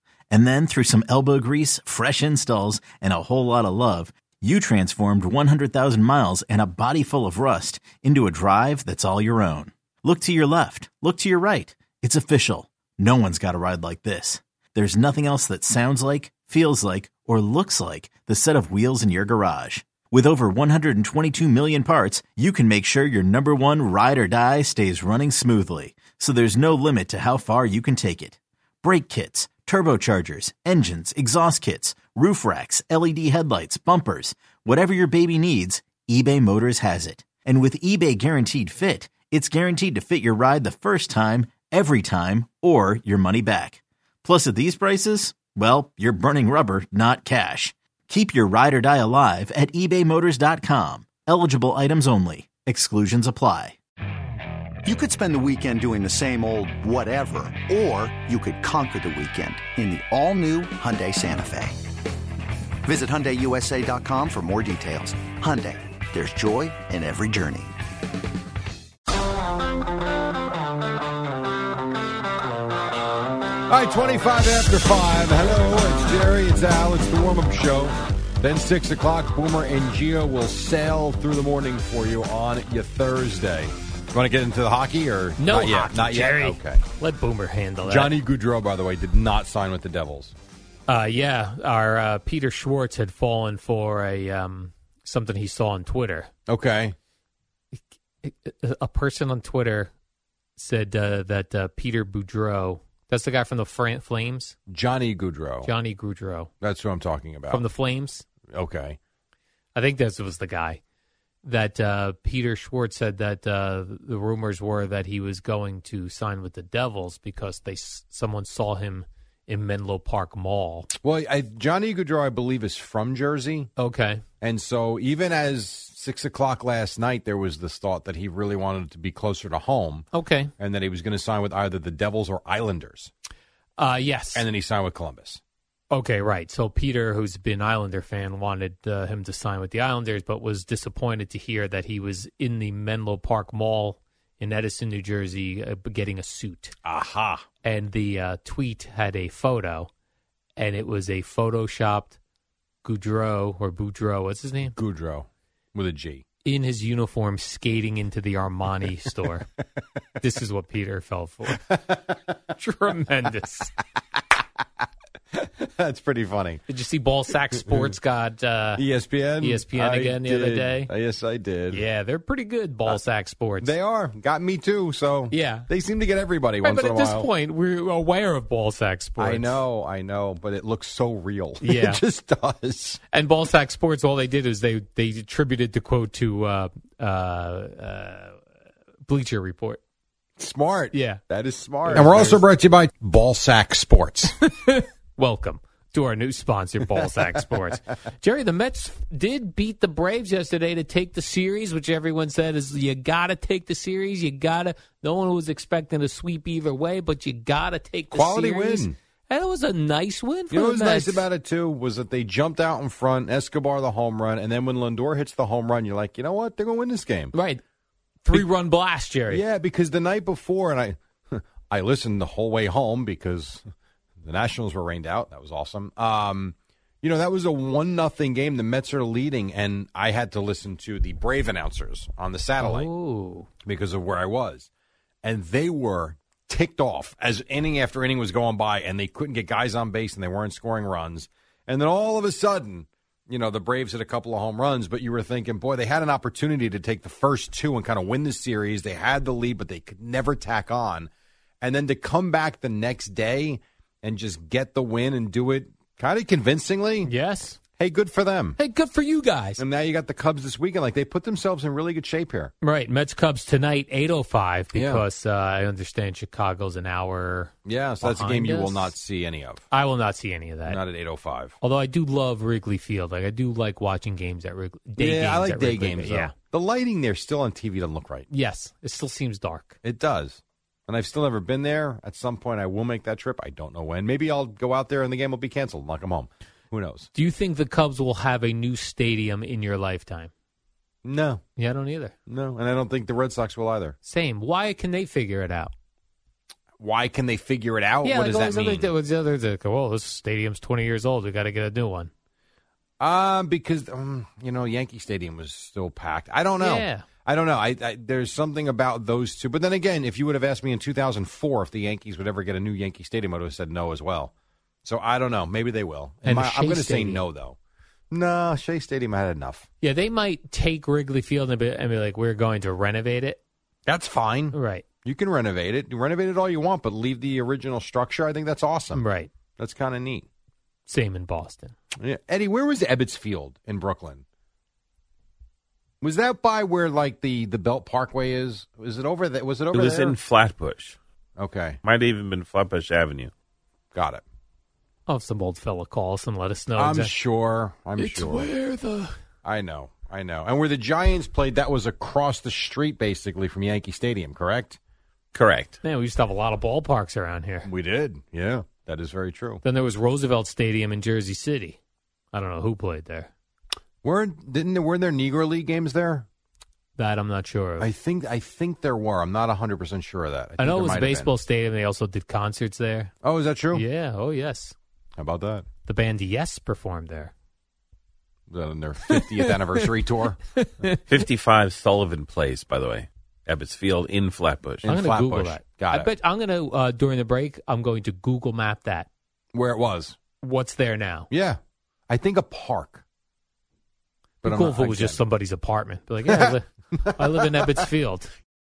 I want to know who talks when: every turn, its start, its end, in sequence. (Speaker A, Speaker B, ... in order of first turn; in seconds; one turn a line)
Speaker A: 0.3-53.8
Speaker B: 54.8-61.8
Speaker B: 62.8-67.7
Speaker C: 73.7-86.8
Speaker D: 85.4-88.2
Speaker C: 87.8-90.3
Speaker D: 90.9-96.3
Speaker C: 96.5-96.9
Speaker D: 97.7-99.9
Speaker D: 100.6-104.5
Speaker C: 104.7-105.7
Speaker D: 105.6-106.5
Speaker C: 106.6-107.6
Speaker D: 107.5-108.2
Speaker C: 108.5-109.0
Speaker D: 109.7-110.8
Speaker D: 111.4-120.9
Speaker C: 121.0-123.7
Speaker D: 123.8-124.2
Speaker C: 124.4-130.1
Speaker D: 130.1-130.5
Speaker C: 130.6-133.1
Speaker D: 133.8-134.4
Speaker C: 134.3-135.4
Speaker D: 135.9-146.7
Speaker C: 146.8-147.4
Speaker D: 147.6-149.9
Speaker D: 150.6-152.2
Speaker D: 152.8-154.7
Speaker C: 154.7-156.2
Speaker D: 156.4-159.5
Speaker D: 160.2-161.8
Speaker D: 162.5-163.7
Speaker C: 165.3-166.6
Speaker D: 166.7-168.8
Speaker C: 167.7-167.9
Speaker C: 168.8-171.8
Speaker D: 169.4-170.9
Speaker D: 171.7-173.7
Speaker C: 173.6-177.3
Speaker D: 175.3-175.7
Speaker D: 176.6-179.6
Speaker C: 179.2-183.0
Speaker D: 181.6-182.0
Speaker D: 183.1-188.4
Speaker D: 189.1-189.8
Speaker C: 190.4-194.3
Speaker D: 190.9-191.2
Speaker D: 191.8-192.4
Speaker D: 194.4-211.2
Speaker C: 197.0-197.2
Speaker C: 208.1-208.9
Speaker C: 210.5-217.3
Speaker D: 217.3-217.6
Speaker D: 218.2-219.4
Speaker C: 219.3-223.6
Speaker C: 224.2-232.9
Speaker D: 232.6-233.5
Speaker C: 233.6-234.7
Speaker C: 235.2-251.1
Speaker C: 251.6-257.1
Speaker D: 257.0-257.6
Speaker C: 257.8-258.6
Speaker D: 258.6-259.6
Speaker C: 259.6-262.5
Speaker D: 262.6-268.9
Speaker C: 264.7-265.0
Speaker C: 267.6-269.6
Speaker D: 269.7-270.8
Speaker C: 270.6-271.6
Speaker D: 271.6-276.3
Speaker C: 275.0-278.3
Speaker D: 278.3-279.7
Speaker C: 279.8-287.1
Speaker D: 287.1-290.3
Speaker C: 291.0-291.4
Speaker D: 291.6-292.1
Speaker C: 292.3-293.9
Speaker D: 294.0-295.7
Speaker C: 296.8-298.9
Speaker D: 298.0-302.1
Speaker C: 303.0-314.3
Speaker D: 306.6-307.1
Speaker C: 314.8-317.6
Speaker D: 316.2-317.2
Speaker C: 318.1-319.7
Speaker D: 319.8-323.4
Speaker C: 323.9-329.0
Speaker D: 324.5-324.8
Speaker D: 328.9-329.3
Speaker C: 329.6-330.3
Speaker D: 330.9-331.7
Speaker C: 332.0-334.2
Speaker C: 336.0-340.2
Speaker E: 339.7-341.0
Speaker C: 341.4-341.8
Speaker E: 341.8-343.3
Speaker C: 343.9-344.2
Speaker D: 345.1-347.1
Speaker C: 346.8-348.5
Speaker D: 348.0-349.1
Speaker C: 349.4-354.8
Speaker E: 355.3-355.8
Speaker D: 355.8-357.7
Speaker C: 357.6-359.6
Speaker D: 359.6-361.8
Speaker D: 362.3-363.3
Speaker C: 364.0-366.3
Speaker D: 366.9-367.9
Speaker C: 367.8-371.3
Speaker D: 370.6-373.1
Speaker C: 373.2-373.8
Speaker D: 373.7-374.7
Speaker C: 375.2-375.6
Speaker D: 375.8-377.3
Speaker C: 378.5-380.4
Speaker D: 379.1-379.6
Speaker D: 380.5-381.0
Speaker E: 381.1-384.9
Speaker C: 384.8-386.1
Speaker D: 384.9-389.1
Speaker C: 389.5-390.2
Speaker D: 390.4-391.3
Speaker C: 391.3-393.0
Speaker C: 394.4-395.2
Speaker D: 394.4-398.3
Speaker C: 396.2-396.5